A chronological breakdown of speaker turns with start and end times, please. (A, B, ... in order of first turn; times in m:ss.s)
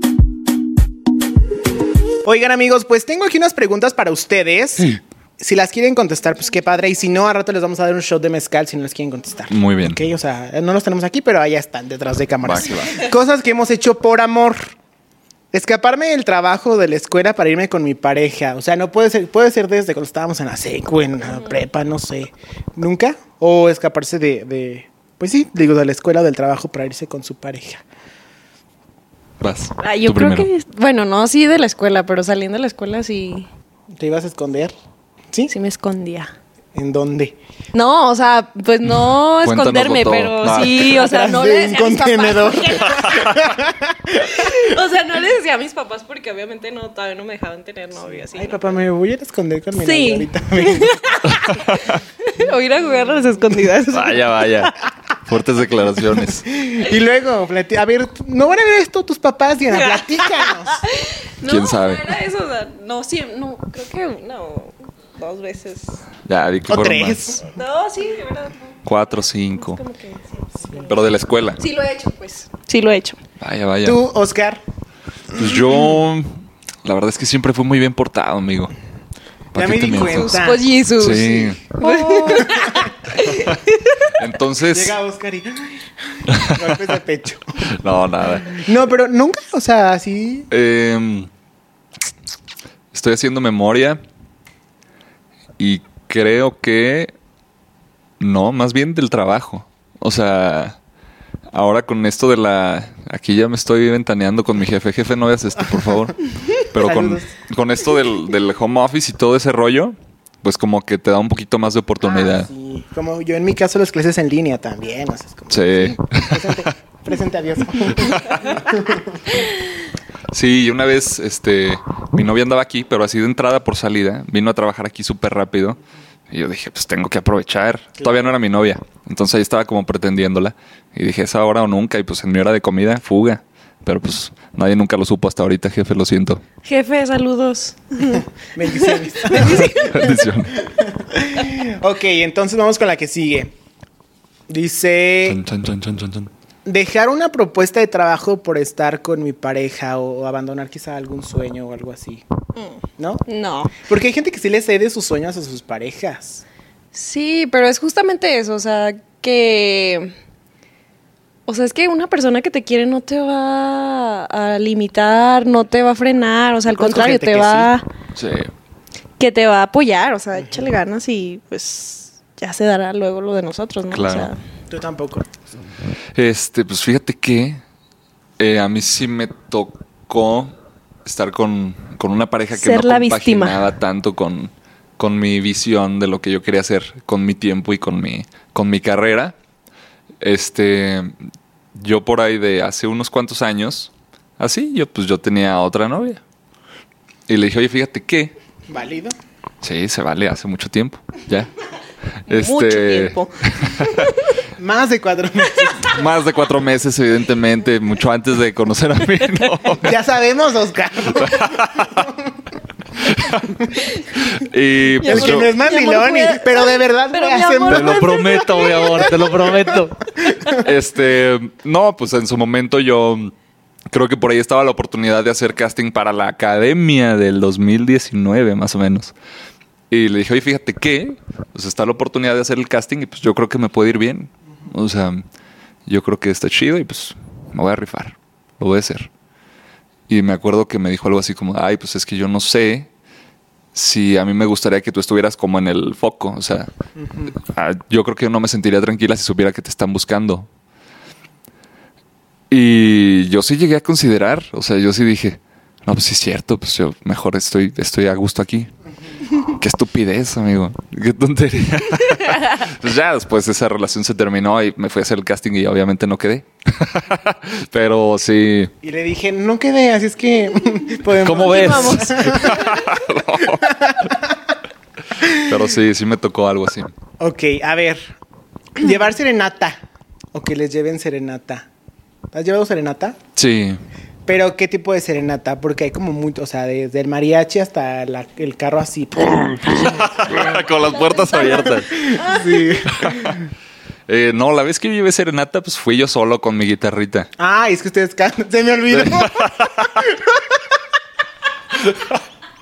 0:02.2-0:14.6 A
0:09.5-0:10.0 B
0:12.4-0:13.1 B
0:15.5-0:27.8 A
0:29.4-0:30.5 B
0:29.8-0:33.5 C
0:34.0-0:34.7 A
0:35.5-0:36.3 C
0:36.8-0:37.4 A
0:37.7-0:43.5 C
0:39.4-0:41.0 B
0:40.9-0:44.7 A
0:44.2-0:48.7 C
0:48.3-0:51.0 A
0:49.8-0:54.7 C
0:51.3-0:52.0 B
0:53.9-0:54.7 B
0:55.3-0:56.5 B
0:56.5-1:00.8 A
0:59.7-1:06.0 C
1:01.4-1:02.1 B
1:06.2-1:07.4 B
1:06.7-1:07.4 A
1:07.4-1:08.9 C
1:08.8-1:09.8 B
1:09.5-1:11.0 C
1:10.8-1:11.6 B
1:11.6-1:13.2 C
1:13.4-1:14.0 B
1:13.8-1:14.6 A
1:15.3-1:18.7 B
1:19.5-1:20.4 B
1:19.6-1:22.9 A
1:19.9-1:24.1 C
1:21.0-1:21.6 B
1:24.2-1:25.0 B
1:24.7-1:27.4 A
1:26.3-1:26.8 B
1:27.7-1:28.6 B
1:28.4-1:30.5 A
1:30.5-1:31.3 B
1:32.9-1:34.0 B
1:35.6-1:37.1 B
1:38.2-1:40.8 B
1:41.5-1:52.5 B
1:46.8-1:47.3 A
1:52.0-1:59.4 A
1:55.5-1:56.7 B
1:57.8-1:58.5 B
2:00.3-2:05.8 B
2:06.3-2:16.4 B
2:16.6-2:20.0 C
2:18.5-2:19.9 A
2:19.3-2:20.6 B
2:20.5-2:23.5 A
2:24.5-2:25.4 A
2:25.3-2:26.3 B
2:26.7-2:32.2 A
2:32.6-2:33.8 C
2:33.0-2:33.2 A
2:33.8-2:36.4 A
2:36.9-2:40.1 C
2:41.5-2:47.8 C
2:46.7-2:47.7 A
2:48.2-2:48.5 B
2:49.2-2:54.4 C
2:50.4-2:50.7 A
2:53.9-2:54.3 B
2:54.7-2:55.3 A
2:56.2-2:57.6 B
2:58.4-3:09.4 B
3:02.5-3:03.6 C
3:10.2-3:11.2 B
3:11.8-3:16.2 B
3:17.3-3:18.3 B
3:18.7-3:19.2 A
3:19.6-3:21.5 B
3:22.3-3:24.1 B
3:22.3-3:24.3 C
3:24.6-3:26.0 A
3:25.9-3:30.0 B
3:29.8-3:32.3 A
3:31.1-3:32.1 B
3:33.0-3:33.7 B
3:34.2-3:35.5 B
3:35.0-3:39.6 C
3:35.0-3:39.1 A
3:37.7-3:43.3 B
3:40.2-3:40.6 A
3:40.2-3:40.6 C
3:43.9-3:49.1 B
3:49.9-3:55.2 B
3:55.9-3:59.1 B
4:00.1-4:02.9 B
4:03.7-4:06.7 B
4:07.0-4:07.3 A
4:07.4-4:10.5 B
4:12.5-4:18.7 B
4:19.5-4:28.7 B
4:28.8-4:32.9 A
4:31.2-4:34.1 B
4:31.2-4:32.8 C
4:33.5-4:34.4 A
4:35.2-4:35.5 A
4:35.3-4:36.9 B
4:37.2-4:38.2 A
4:38.8-4:39.8 A
4:40.3-4:41.7 A
4:42.3-4:43.2 A
4:43.4-4:43.8 B
4:44.3-4:50.6 A
4:49.6-4:52.1 B
4:50.8-4:52.8 C
4:51.9-4:53.4 A
4:53.0-4:53.4 B
4:54.1-4:57.3 B
4:57.4-5:00.6 A
4:58.9-4:59.9 B